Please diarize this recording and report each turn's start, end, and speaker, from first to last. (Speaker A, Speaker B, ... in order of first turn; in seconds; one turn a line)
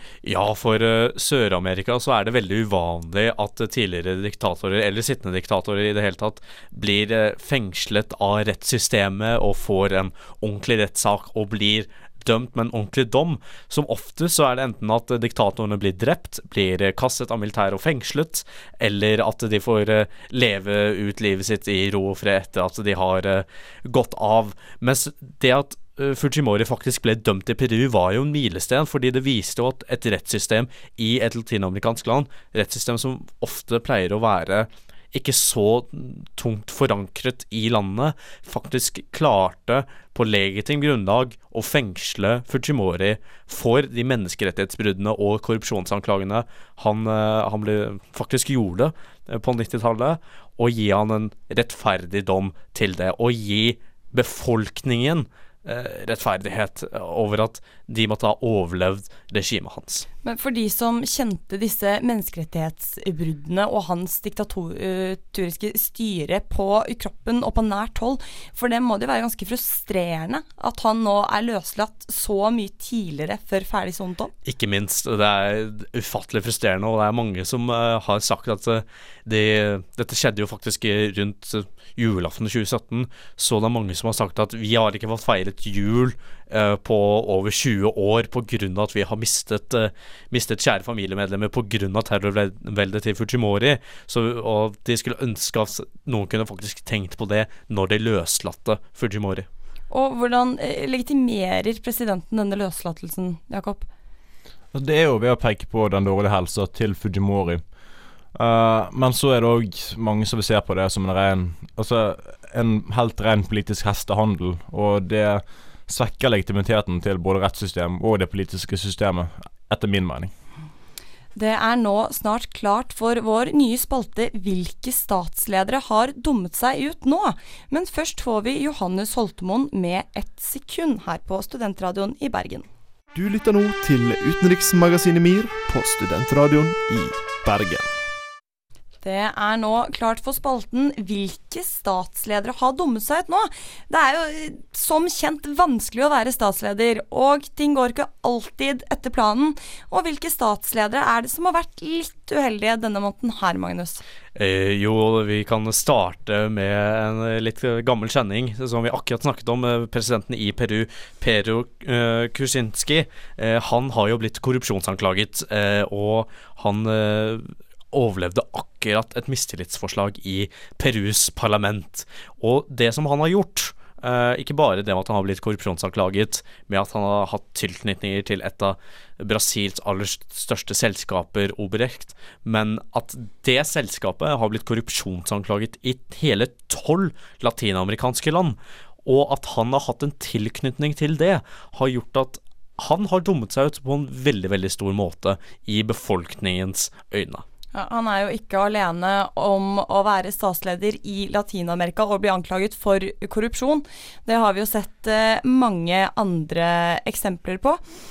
Speaker A: 0.2-60.0
Speaker B: 60.2-74.3
Speaker A: 74.4-99.5
Speaker B: 99.9-103.8
Speaker C: 104.7-107.6
Speaker C: 108.3-120.3
Speaker B: 121.3-132.7
Speaker D: 133.1-137.9
Speaker B: 139.0-154.0
Speaker A: 154.3-197.4
Speaker B: 197.7-207.8